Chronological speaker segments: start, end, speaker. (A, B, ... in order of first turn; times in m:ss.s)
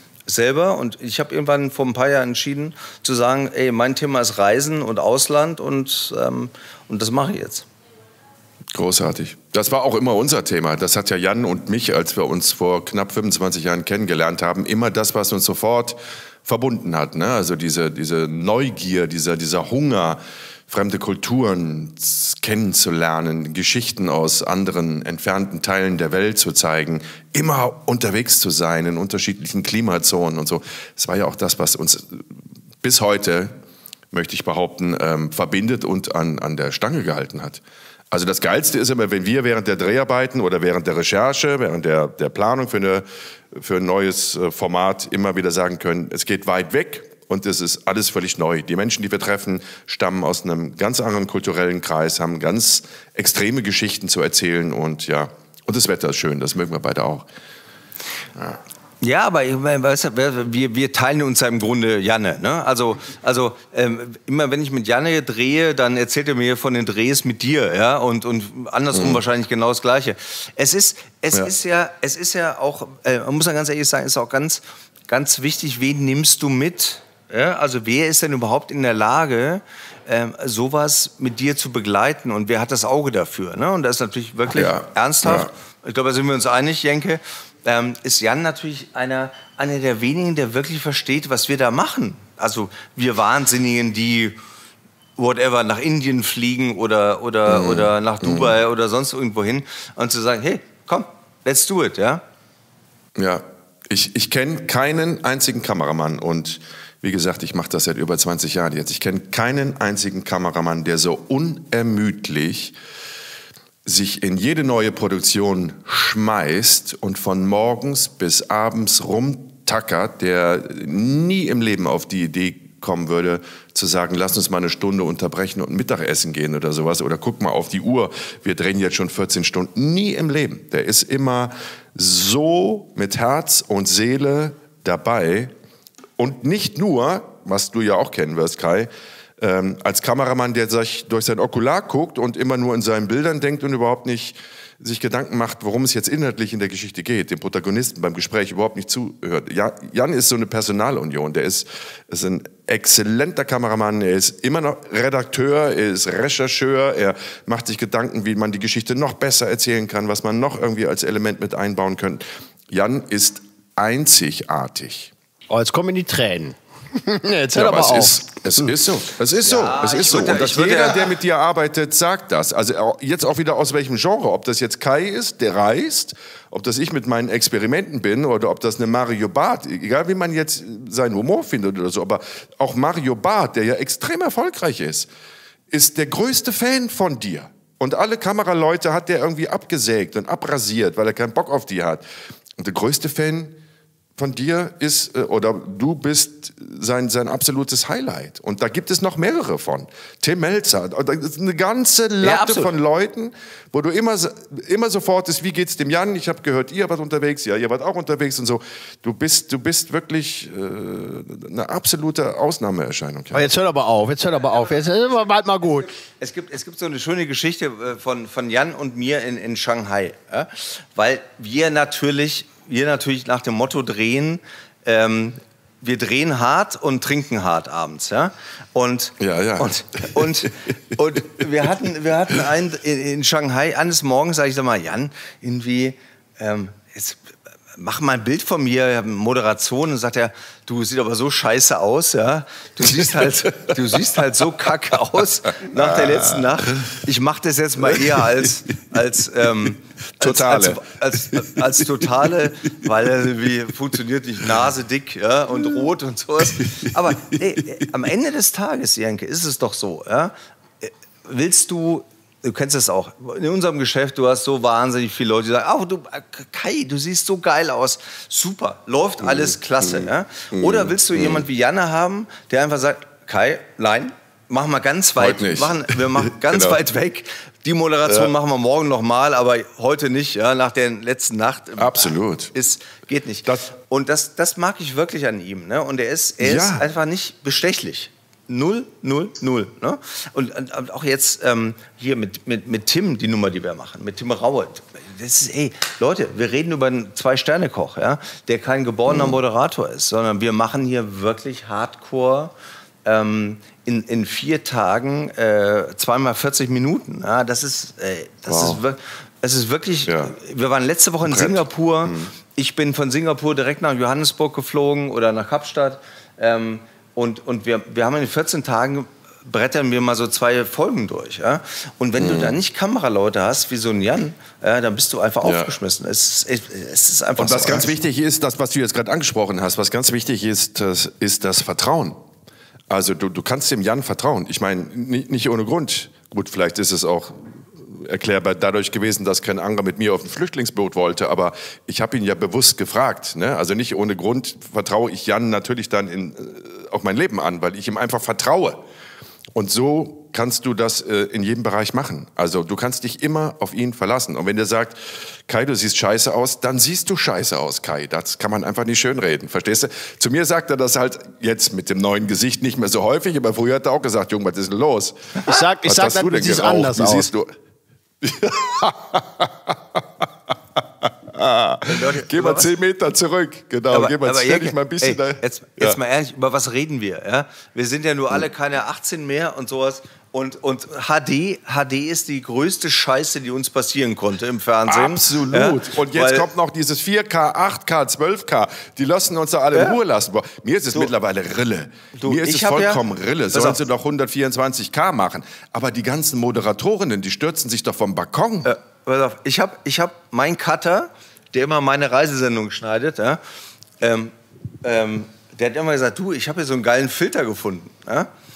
0:00.3-0:07.7 A
0:08.7-0:32.3 B
0:32.8-0:33.5 B
0:34.1-0:57.3 B
0:59.0-1:34.4 A
1:08.9-1:09.2 B
1:24.5-1:25.5 B
1:35.2-1:42.2 A
1:37.5-1:38.6 B
1:43.2-1:52.8 B
1:53.8-2:15.5 B
2:16.2-2:45.1 B
2:45.5-2:48.2 C
2:47.6-3:05.1 B
2:49.4-2:51.2 A
3:05.7-3:12.0 B
3:12.6-3:13.6 B
3:14.2-3:33.5 B
3:22.2-3:22.7 A
3:33.3-3:35.9 C
3:36.0-5:02.5 A
3:49.2-3:50.5 B
4:02.8-4:04.2 B
4:05.6-4:07.0 B
4:07.8-4:08.6 B
4:10.2-4:12.9 B
4:16.5-4:17.4 B
4:29.2-4:31.5 B
4:35.2-4:36.8 B
4:38.0-4:38.3 B
4:41.8-4:42.5 B
4:46.4-4:46.9 B
4:59.1-4:59.4 B
5:03.0-5:27.9 A
5:08.5-5:08.8 B
5:10.1-5:10.4 B
5:11.2-5:12.3 B
5:22.2-5:22.6 B
5:25.4-5:25.7 B
5:27.4-5:32.2 B
5:32.9-5:48.8 B
5:49.6-6:07.5 B
6:05.4-6:07.3 C
6:08.2-6:16.0 B
6:11.9-6:12.7 A
6:13.9-6:26.5 A
6:24.9-6:38.7 B
6:32.2-6:33.0 A
6:33.5-6:33.8 A
6:38.6-6:43.4 A
6:44.0-6:48.3 A